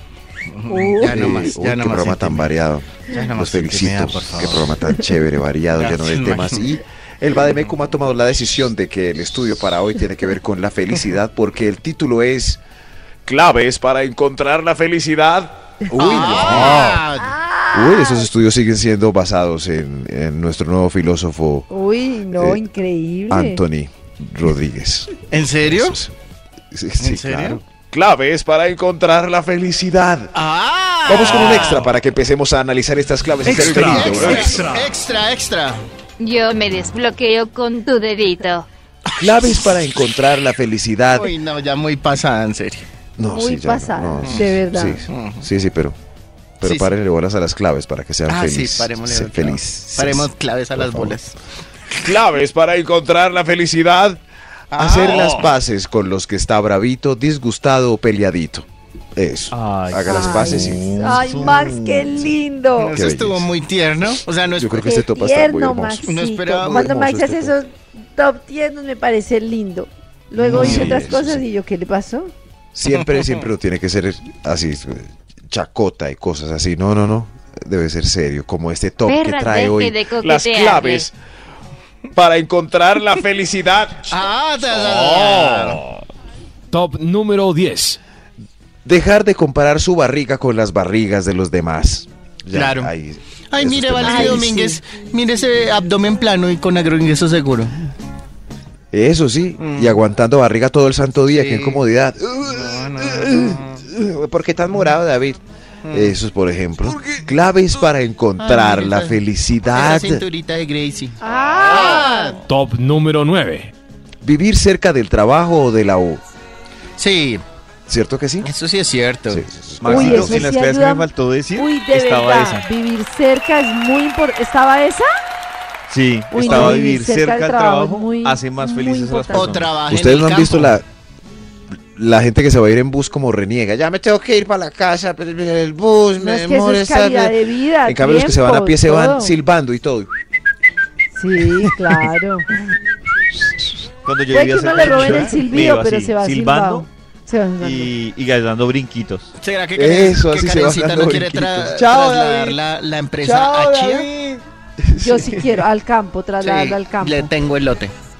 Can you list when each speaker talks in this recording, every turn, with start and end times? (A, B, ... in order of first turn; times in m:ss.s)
0:00.5-0:02.5 A
0:00.7-0:01.2 B
0:01.0-0:12.6 C
0:03.1-0:04.7 A
0:05.7-0:06.7 A
0:13.3-0:17.0 C
0:15.9-0:17.3 A
0:17.2-0:18.3 B
0:17.7-0:21.7 C
0:21.7-0:23.6 B
0:22.4-0:22.6 C
0:23.3-0:26.1 C
0:25.3-0:26.0 A
0:26.7-0:30.3 C
0:27.0-0:27.6 A
0:30.3-0:31.9 A
0:31.0-0:34.7 C
0:33.4-0:35.8 A
0:33.5-0:34.9 D
0:36.2-0:38.7 E
0:39.2-0:41.3 C
0:41.1-0:42.8 A
0:43.2-0:46.0 C
0:43.3-0:45.0 B
0:45.1-0:45.5 A
0:46.6-0:51.2 C
0:46.6-0:46.9 A
0:48.3-0:51.4 A
0:52.0-0:54.2 C
0:54.7-0:55.6 A
0:54.7-1:01.4 C
0:59.5-1:02.3 F
1:00.0-1:03.0 B
1:02.8-1:04.9 A
1:02.9-1:03.5 C
1:04.6-1:06.0 C
1:04.8-1:12.3 B
1:06.0-1:06.9 A
1:06.6-1:07.6 C
1:10.4-1:11.0 A
1:10.4-1:11.4 C
1:12.8-1:21.1 C
1:19.1-1:21.1 E
1:22.1-1:24.2 C
1:24.1-1:25.8 A
1:26.7-1:28.0 D
1:28.8-1:34.6 C
1:32.5-1:32.9 A
1:33.5-1:37.9 A
1:34.0-1:34.8 B
1:38.9-1:45.4 C
1:39.6-1:40.0 A
1:41.3-1:41.8 A
1:42.4-1:43.8 A
1:45.9-1:46.2 A
1:45.9-1:50.2 C
1:48.4-1:52.5 A
1:51.2-1:52.4 B
1:52.4-1:53.7 D
1:54.2-1:56.2 C
1:57.0-1:57.4 A
1:57.9-1:58.5 C
1:58.4-1:59.4 A
1:59.3-2:00.4 C
1:59.8-2:02.6 F
1:59.8-2:05.1 B
2:05.9-2:09.7 F
2:06.3-2:09.6 B
2:06.4-2:06.8 C
2:09.3-2:10.8 A
2:09.9-2:10.9 C
2:12.0-2:20.1 C
2:16.2-2:19.4 B
2:21.2-2:22.5 B
2:24.0-2:26.9 F
2:24.3-2:27.9 B
2:27.6-2:29.3 F
2:29.4-2:34.1 A
2:29.8-2:32.6 C
2:33.2-2:35.5 C
2:35.0-2:37.3 B
2:36.4-2:37.9 A